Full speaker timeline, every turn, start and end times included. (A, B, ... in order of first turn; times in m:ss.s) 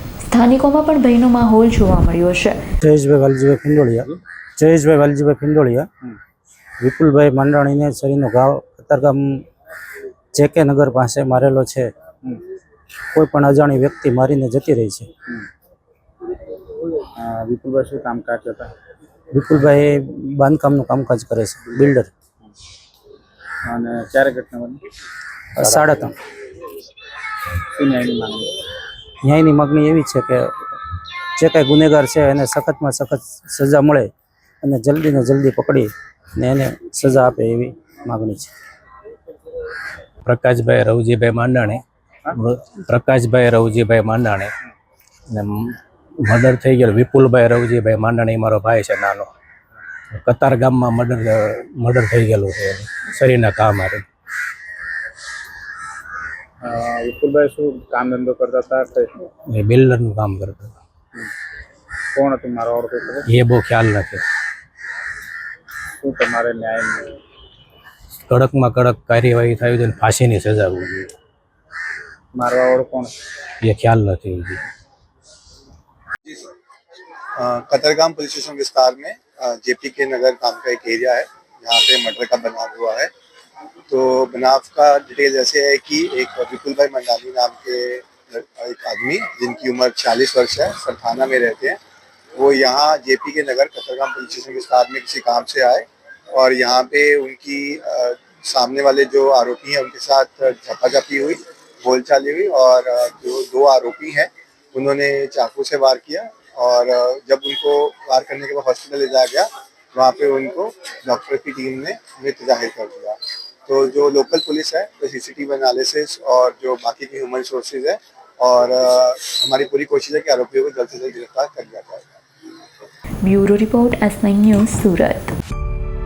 0:00.2-0:02.6 A
0:02.8-0:05.9 B
0:06.8-0:09.4 B
0:10.3-0:11.9 B
0:13.1-0:15.1 B
0:17.1-0:18.7 C
0:19.3-0:22.1 B
0:23.6-0:24.8 C
0:25.5-0:26.1 B
0:27.7-0:28.5 C
0:29.2-0:30.5 B
0:31.4-0:34.1 B
0:34.6-0:38.5 B
0:40.2-0:44.5 D
0:45.3-0:49.3 D
0:50.1-0:54.0 D
0:56.6-0:59.3 C
0:59.5-1:00.8 D
1:02.1-1:03.2 C
1:03.3-1:04.2 D
1:06.0-1:07.2 C
1:08.3-1:11.1 D
1:12.3-1:13.2 C
1:13.6-1:14.6 D
1:17.4-1:23.1 E
1:23.9-1:31.8 E
1:32.3-2:02.2 E
2:03.2-2:05.3 A